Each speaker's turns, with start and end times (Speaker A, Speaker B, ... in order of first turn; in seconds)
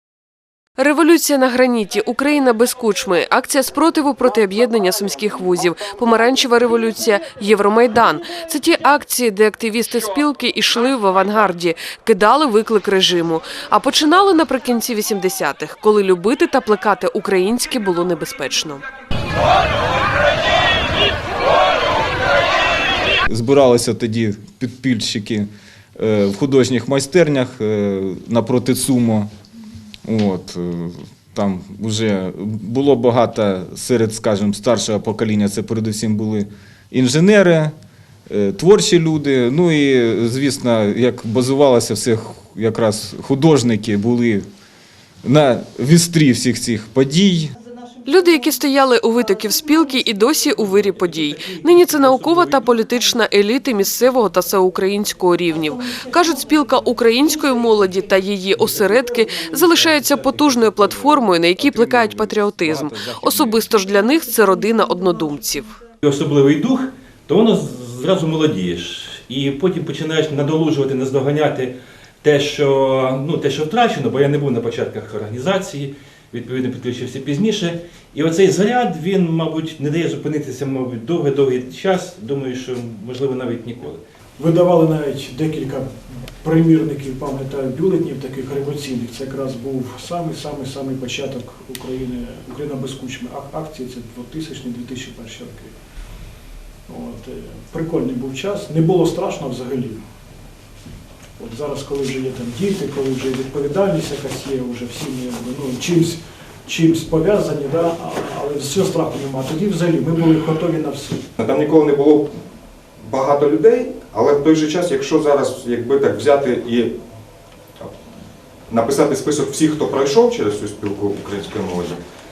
Speaker A: 0.8-18.8, 48.1-65.8
Speaker B: 23.3-29.3, 30.1-37.7, 38.3-44.5, 45.2-47.5, 62.3-63.5
Speaker C: 50.7-52.7, 58.6-58.9, 59.6-61.1, 66.0-84.0
Speaker D: 84.4-85.9, 86.4-95.8, 96.9-100.0, 101.4-111.2
Speaker E: 111.4-112.3, 113.0-117.0, 118.7-122.0